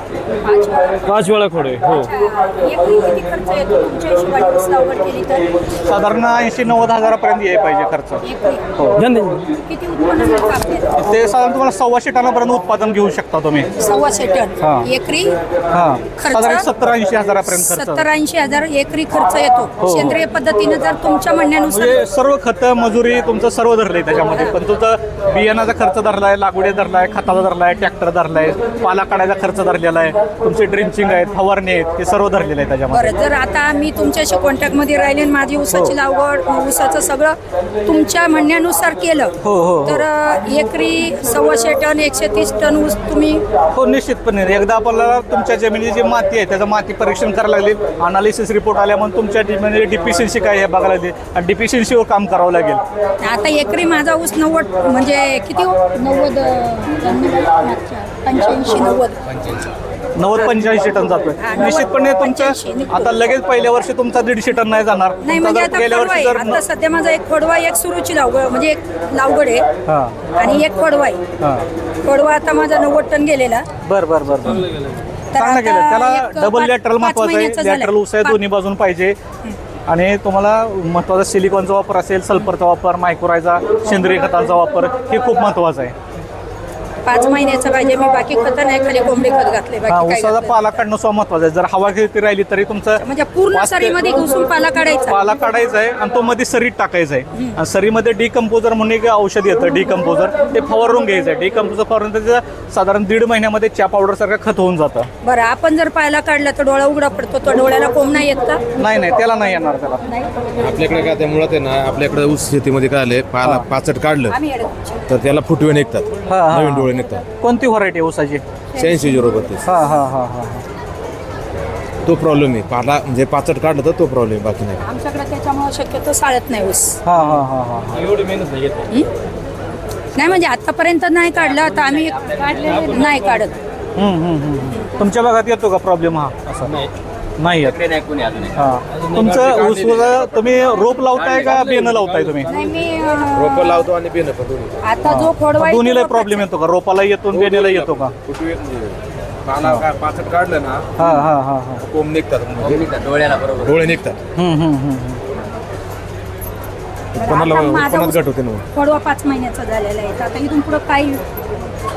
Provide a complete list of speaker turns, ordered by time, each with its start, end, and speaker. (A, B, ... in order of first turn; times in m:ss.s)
0:00.4-0:01.0 A
0:01.0-0:02.1 B
0:01.9-0:05.5 A
0:05.8-0:08.2 C
0:08.2-0:08.6 A
0:09.0-0:09.5 B
0:09.6-0:10.9 A
0:11.0-0:13.7 C
0:13.8-0:15.4 A
0:14.6-0:14.8 C
0:15.7-0:18.0 C
0:16.2-0:16.6 A
0:17.5-0:22.0 A
0:19.8-0:20.2 C
0:21.7-0:33.2 C
0:32.9-0:39.3 A
0:39.4-0:40.0 C
0:39.8-0:43.4 A
0:43.7-0:52.8 C
0:53.2-0:59.2 A
1:00.2-1:06.6 C
1:00.3-1:00.6 A
1:01.4-1:03.3 A
1:05.2-1:09.7 A
1:09.9-1:10.3 C
1:10.3-1:11.2 A
1:11.4-1:11.7 C
1:12.0-1:13.7 A
1:13.8-1:14.6 C
1:14.4-1:15.0 B
1:15.3-1:18.4 A
1:15.3-1:19.2 C
1:19.9-1:25.9 C
1:27.0-1:30.6 A
1:29.9-1:34.0 C
1:33.0-1:35.2 A
1:35.1-1:45.1 C
1:45.2-1:48.6 A
1:48.8-1:50.1 C
1:50.6-1:54.4 D
1:54.3-1:55.0 A
1:55.1-1:57.2 D
1:56.3-1:58.4 C
1:58.7-1:59.4 A
1:58.8-1:59.7 D
1:59.6-2:00.6 C
2:02.0-2:04.8 D
2:04.8-2:07.0 A
2:07.0-2:08.0 C
2:08.0-2:08.9 B
2:10.2-2:13.6 A
2:12.5-2:13.4 B
2:14.0-2:16.7 C
2:16.6-2:16.9 B
2:17.4-2:17.9 C
2:18.5-2:22.5 C
2:19.0-2:19.5 B
2:19.2-2:20.4 D
2:21.1-2:22.6 D
2:22.5-2:23.9 A
2:23.3-2:24.8 D
2:24.8-2:26.5 A
2:25.0-2:28.1 C
2:27.3-2:31.0 D
2:31.0-2:31.8 C
2:31.8-2:34.2 D
2:34.4-2:35.2 C
2:37.1-2:38.6 D
2:37.2-2:41.2 A